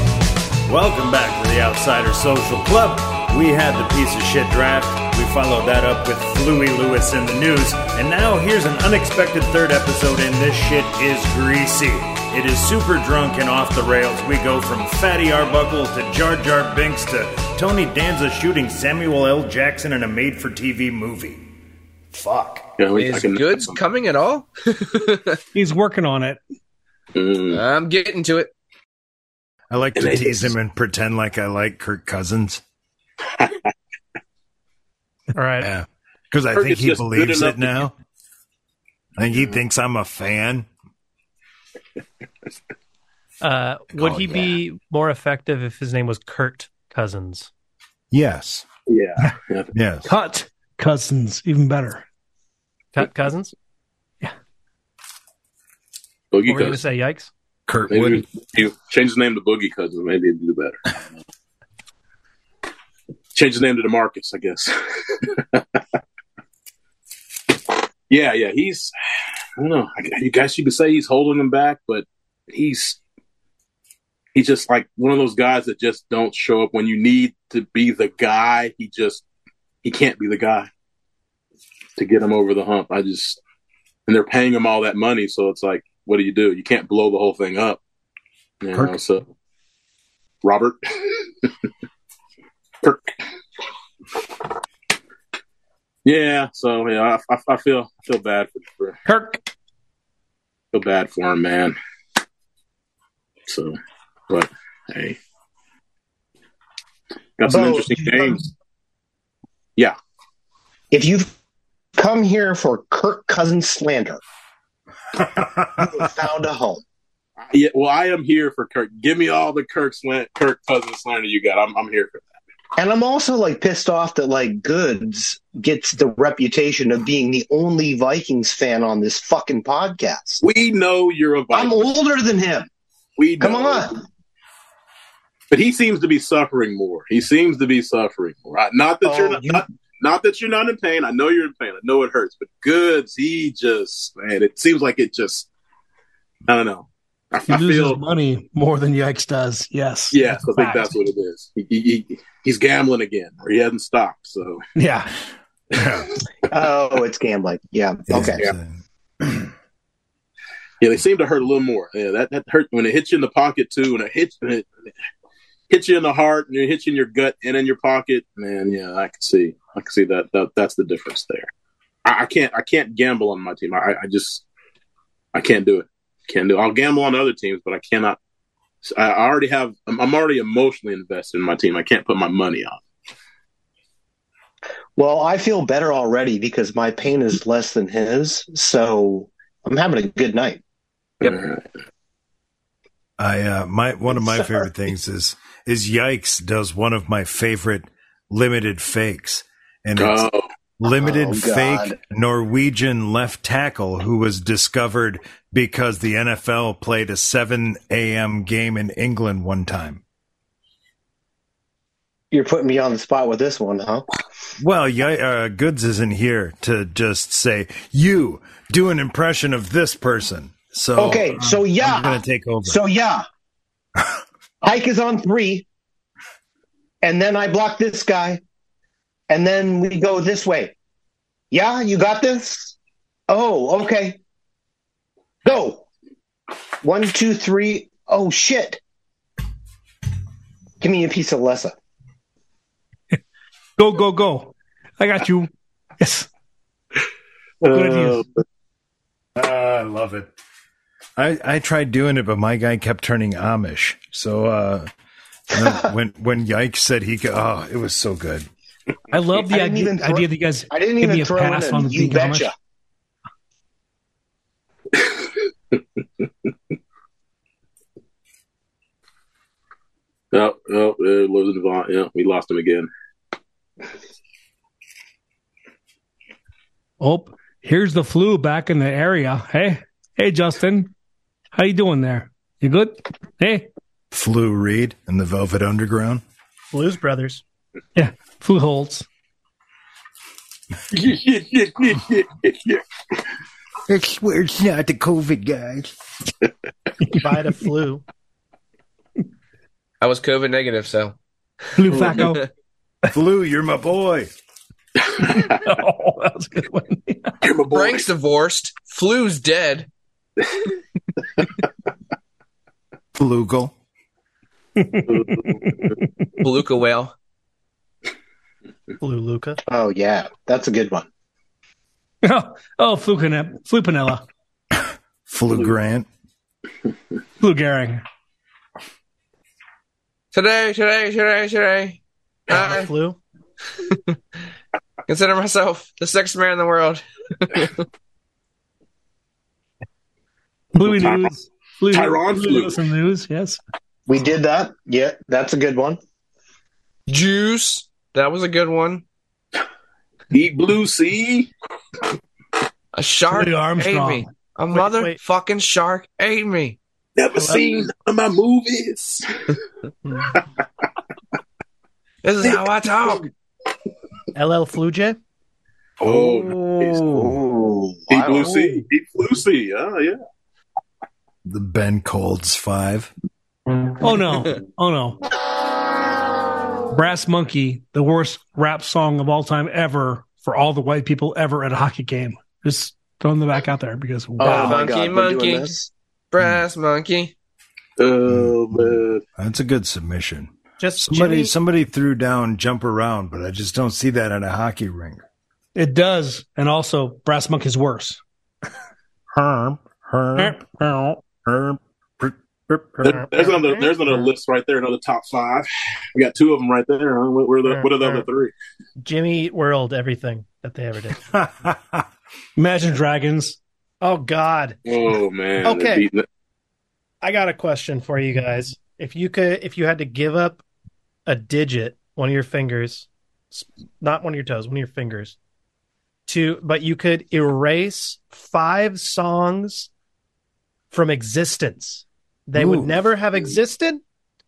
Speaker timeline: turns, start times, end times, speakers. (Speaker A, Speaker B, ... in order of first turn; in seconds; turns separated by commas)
Speaker A: 0.7-21.5, Speaker A: 22.1-22.7, Speaker B: 22.8-23.8, Speaker C: 22.9-25.4, Speaker D: 25.5-26.4, Speaker B: 27.1-27.6, Speaker C: 27.5-28.5, Speaker A: 29.7-32.6, Speaker B: 30.0-30.5, Speaker B: 33.3-33.7, Speaker E: 35.3-35.7, Speaker A: 35.6-37.9, Speaker B: 36.5-37.7, Speaker A: 39.2-40.7, Speaker E: 43.4-47.5, Speaker A: 44.0-44.5, Speaker A: 48.1-48.6, Speaker B: 48.9-49.7, Speaker A: 49.7-50.1, Speaker D: 50.0-52.0, Speaker E: 52.9-53.5, Speaker B: 56.3-56.8, Speaker E: 56.4-57.3, Speaker A: 57.7-58.2, Speaker B: 57.9-61.0, Speaker B: 63.3-65.8, Speaker B: 68.1-68.9, Speaker B: 69.6-73.0, Speaker B: 74.3-79.2, Speaker B: 79.8-80.7, Speaker B: 82.0-83.4, Speaker B: 84.1-87.8, Speaker B: 88.6-89.3, Speaker B: 90.4-91.5, Speaker B: 92.8-93.2, Speaker B: 96.0-99.0, Speaker D: 99.0-99.4, Speaker B: 100.7-101.8, Speaker B: 103.5-103.8, Speaker B: 104.3-105.2, Speaker B: 107.4-108.5, Speaker F: 107.5-108.4, Speaker F: 110.9-111.3, Speaker F: 112.0-114.2, Speaker A: 115.2-116.0, Speaker F: 115.8-116.8, Speaker B: 117.4-122.3, Speaker F: 122.8-130.4, Speaker B: 130.4-131.9, Speaker F: 131.5-132.7, Speaker B: 133.2-134.0, Speaker F: 133.4-134.0, Speaker B: 135.5-145.5, Speaker F: 139.0-139.6, Speaker B: 146.5-148.0, Speaker D: 147.5-150.9, Speaker B: 150.1-154.6, Speaker D: 154.8-155.1, Speaker A: 155.7-156.1, Speaker F: 156.5-158.4, Speaker A: 158.1-159.5, Speaker B: 158.1-158.5, Speaker B: 160.8-164.9, Speaker B: 165.7-171.5, Speaker B: 172.0-174.4, Speaker B: 175.3-178.2, Speaker B: 178.8-182.8, Speaker F: 185.0-190.6, Speaker B: 191.2-191.7, Speaker A: 193.2-200.3, Speaker F: 194.2-194.6, Speaker B: 200.0-200.4, Speaker A: 200.8-210.0, Speaker F: 200.8-202.0, Speaker F: 212.3-214.1, Speaker A: 214.6-222.8, Speaker F: 221.0-223.2, Speaker F: 224.6-225.6, Speaker F: 227.0-228.4, Speaker F: 229.3-230.7, Speaker F: 231.5-232.7, Speaker F: 233.3-234.2, Speaker F: 235.4-235.8, Speaker F: 236.8-238.8, Speaker F: 240.8-241.7, Speaker D: 243.8-246.3, Speaker B: 247.6-248.2, Speaker D: 247.7-248.2, Speaker A: 249.3-250.3, Speaker A: 251.2-254.9, Speaker A: 255.5-258.5, Speaker F: 255.5-255.9, Speaker D: 259.1-262.5, Speaker F: 259.5-262.5, Speaker B: 264.9-266.2, Speaker B: 270.3-272.9, Speaker D: 277.0-280.9, Speaker D: 281.5-283.7, Speaker A: 284.1-286.2, Speaker E: 286.7-287.4, Speaker D: 287.9-289.1, Speaker B: 290.9-292.8, Speaker A: 293.9-295.9, Speaker E: 297.2-298.0, Speaker C: 300.0-301.1, Speaker D: 301.8-302.4, Speaker C: 301.9-302.5, Speaker A: 303.1-304.3, Speaker D: 305.2-307.4, Speaker B: 307.4-308.1, Speaker C: 307.7-309.9, Speaker A: 313.1-313.7, Speaker D: 314.8-316.0, Speaker B: 315.1-315.6, Speaker C: 316.4-317.1, Speaker E: 319.0-319.6, Speaker F: 319.7-321.1, Speaker D: 322.2-324.2, Speaker A: 325.3-326.1, Speaker D: 327.4-328.0, Speaker C: 330.3-332.9, Speaker E: 332.5-333.2, Speaker C: 333.8-334.1, Speaker C: 335.1-337.8, Speaker D: 340.7-343.6, Speaker B: 340.8-341.3, Speaker B: 341.9-342.8, Speaker F: 344.1-346.0, Speaker C: 347.1-349.0, Speaker B: 350.3-351.5, Speaker C: 352.9-356.8, Speaker D: 353.3-354.3, Speaker E: 354.7-355.2, Speaker B: 357.2-359.3, Speaker E: 357.4-357.7, Speaker E: 360.1-360.4, Speaker C: 362.2-363.2, Speaker B: 362.4-362.7, Speaker E: 364.3-365.2, Speaker A: 366.0-367.4, Speaker B: 366.0-367.0, Speaker F: 367.1-368.8, Speaker B: 368.1-370.2, Speaker A: 371.4-373.1, Speaker D: 374.0-375.2, Speaker D: 376.9-384.8, Speaker F: 384.4-385.9, Speaker C: 384.4-385.8, Speaker C: 386.3-387.3, Speaker B: 388.0-389.2, Speaker A: 388.3-395.2, Speaker E: 390.8-391.5, Speaker D: 395.7-398.2, Speaker A: 399.3-400.6, Speaker D: 400.4-401.2, Speaker A: 401.4-403.2, Speaker B: 403.0-408.5, Speaker E: 403.1-404.3, Speaker E: 407.6-408.2, Speaker E: 409.0-411.2, Speaker A: 411.3-412.0, Speaker D: 412.6-413.6, Speaker E: 414.0-414.8, Speaker B: 414.9-416.2, Speaker E: 415.6-416.1, Speaker E: 417.2-420.6, Speaker E: 421.3-425.4, Speaker E: 426.3-429.9, Speaker E: 430.9-434.0, Speaker A: 432.5-433.0